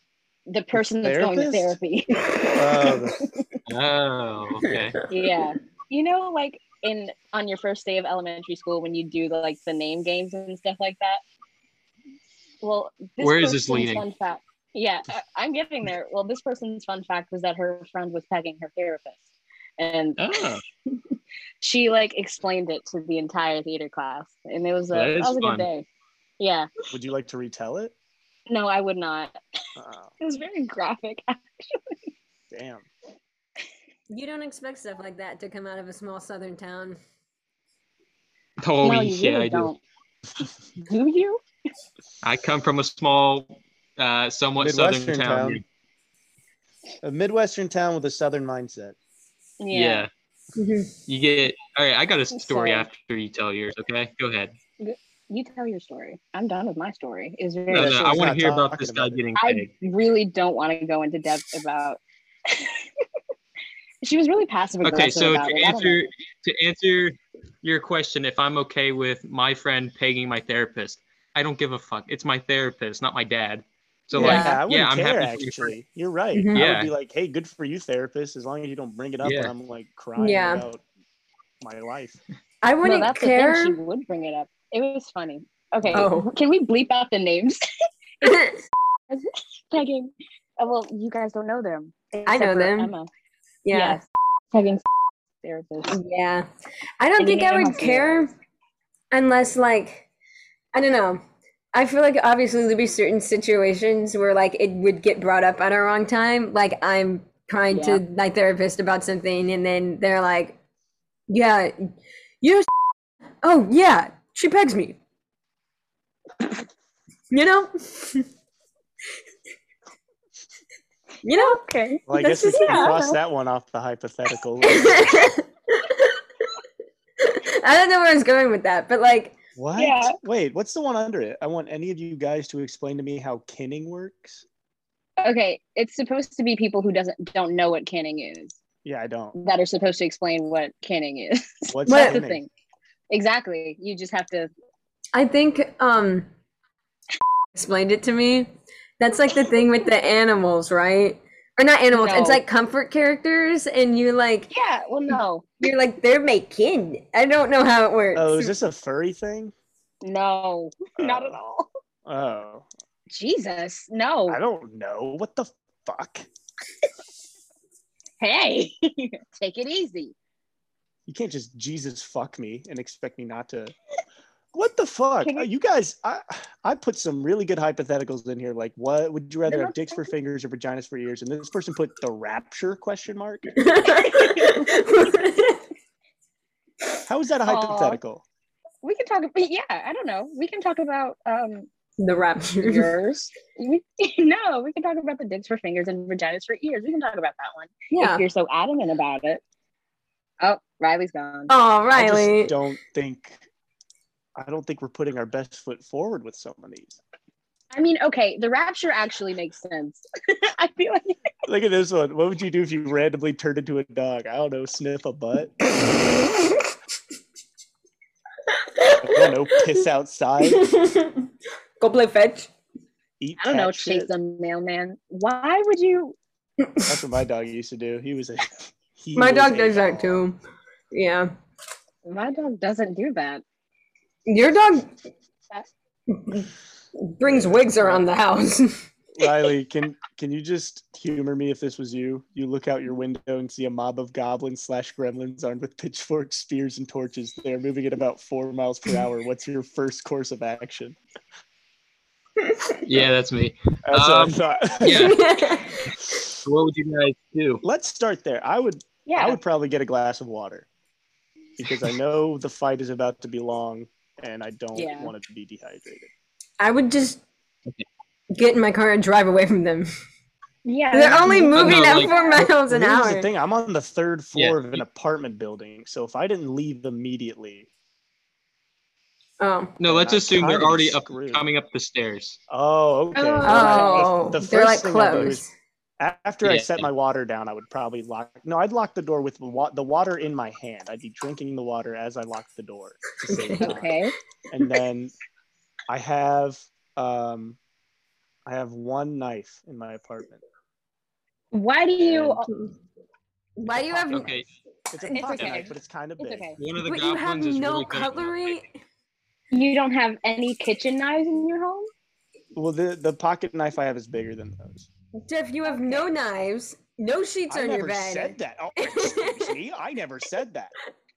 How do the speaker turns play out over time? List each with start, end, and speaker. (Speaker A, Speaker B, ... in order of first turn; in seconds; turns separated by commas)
Speaker A: 0.5-3.6, Speaker B: 0.7-1.8, Speaker B: 2.5-3.2, Speaker C: 3.7-5.0, Speaker A: 5.1-11.2, Speaker A: 12.6-19.2, Speaker C: 13.2-14.0, Speaker A: 19.8-20.2, Speaker C: 20.2-20.6, Speaker A: 21.6-25.8, Speaker C: 24.9-25.7, Speaker A: 26.4-26.7, Speaker B: 26.9-27.9, Speaker A: 28.5-29.4, Speaker B: 29.8-30.1, Speaker A: 30.2-32.0, Speaker B: 32.5-32.9, Speaker D: 34.1-37.0, Speaker C: 38.6-39.7, Speaker A: 38.8-39.8, Speaker A: 40.8-41.4, Speaker C: 42.2-45.6, Speaker B: 44.6-45.6, Speaker B: 47.0-49.0, Speaker A: 49.6-50.1, Speaker C: 49.7-50.1, Speaker D: 50.5-50.9, Speaker C: 51.1-54.5, Speaker A: 52.3-52.9, Speaker A: 54.8-58.3, Speaker C: 57.7-59.7, Speaker B: 57.7-59.2, Speaker A: 59.4-63.0, Speaker A: 64.0-66.1, Speaker C: 64.8-75.7, Speaker B: 74.1-80.8, Speaker D: 74.2-74.6, Speaker D: 76.3-76.6, Speaker C: 76.5-76.9, Speaker C: 79.2-79.5, Speaker D: 80.2-80.6, Speaker B: 81.6-82.2, Speaker D: 82.6-83.8, Speaker A: 82.8-87.6, Speaker D: 85.9-86.3, Speaker D: 88.2-88.6, Speaker A: 89.1-93.1, Speaker D: 92.2-92.9, Speaker D: 93.7-94.0, Speaker A: 93.7-94.8, Speaker A: 95.4-96.0, Speaker D: 95.9-96.5, Speaker D: 97.0-98.3, Speaker A: 97.2-98.3, Speaker D: 99.1-100.0, Speaker D: 100.7-101.2, Speaker D: 101.7-110.6, Speaker A: 107.7-108.0, Speaker D: 111.3-112.7, Speaker D: 113.4-115.0, Speaker D: 117.3-118.2, Speaker D: 121.2-123.0, Speaker A: 121.3-122.0, Speaker B: 122.1-125.2, Speaker A: 122.5-123.1, Speaker D: 124.6-126.1, Speaker D: 127.2-129.3, Speaker B: 129.6-134.4, Speaker A: 129.8-130.2, Speaker A: 135.2-138.6, Speaker B: 138.8-139.3, Speaker A: 139.3-142.5, Speaker B: 141.7-142.4, Speaker D: 141.9-142.2, Speaker A: 143.1-144.5, Speaker D: 145.1-146.3, Speaker D: 147.5-154.5, Speaker A: 151.9-152.4, Speaker A: 154.5-155.6, Speaker D: 155.6-158.5, Speaker B: 158.1-159.5, Speaker A: 160.0-161.7, Speaker B: 161.0-161.4, Speaker B: 162.1-162.7, Speaker A: 163.1-164.4, Speaker B: 164.3-166.3, Speaker A: 168.2-170.1, Speaker B: 171.1-173.7, Speaker B: 174.5-183.6, Speaker A: 175.2-175.5, Speaker A: 179.5-180.0, Speaker D: 183.6-185.6, Speaker A: 183.9-184.8, Speaker B: 187.1-188.2, Speaker A: 187.4-188.0, Speaker A: 188.8-191.7, Speaker D: 192.0-192.9, Speaker A: 192.6-199.4, Speaker D: 197.9-198.2, Speaker A: 200.4-201.5, Speaker D: 201.5-202.5, Speaker B: 201.9-203.4, Speaker B: 204.3-207.0, Speaker A: 207.7-211.3, Speaker B: 211.4-215.5, Speaker D: 218.7-219.2, Speaker B: 219.0-220.6, Speaker D: 220.4-221.3, Speaker D: 221.8-222.5, Speaker B: 223.2-224.1, Speaker A: 223.4-226.2, Speaker D: 226.6-226.9, Speaker B: 226.8-230.2, Speaker D: 229.1-230.4, Speaker D: 230.9-231.3, Speaker A: 232.1-233.4, Speaker D: 234.3-234.9, Speaker D: 236.1-236.5, Speaker D: 237.0-238.8, Speaker B: 237.2-238.1, Speaker B: 239.2-251.0, Speaker C: 252.8-255.2, Speaker B: 253.9-255.2, Speaker D: 254.8-256.0, Speaker C: 256.4-257.6, Speaker B: 257.6-260.7, Speaker A: 259.1-259.4, Speaker B: 261.6-266.1, Speaker A: 264.7-265.1, Speaker D: 266.6-267.2, Speaker D: 268.3-269.9, Speaker A: 270.6-272.5, Speaker D: 270.9-273.3, Speaker C: 271.5-272.1, Speaker B: 272.7-277.7, Speaker C: 274.3-274.8, Speaker D: 279.4-279.7, Speaker C: 279.8-282.4, Speaker B: 279.8-281.4, Speaker B: 282.5-285.5, Speaker A: 283.1-284.1, Speaker D: 283.4-285.5, Speaker B: 286.0-293.9, Speaker C: 286.4-286.9, Speaker D: 293.2-293.7, Speaker A: 293.6-294.1, Speaker B: 294.5-295.1, Speaker B: 295.9-297.6, Speaker B: 298.4-300.4, Speaker A: 301.5-302.5, Speaker B: 302.0-302.4, Speaker D: 303.6-304.4, Speaker B: 303.7-304.4, Speaker C: 304.1-304.4, Speaker B: 304.9-306.5, Speaker A: 305.1-306.6, Speaker C: 305.3-305.6, Speaker C: 306.6-308.6, Speaker D: 306.8-308.6, Speaker A: 309.5-311.9, Speaker B: 312.5-314.9, Speaker D: 315.2-319.5, Speaker A: 315.6-316.1, Speaker B: 317.5-320.7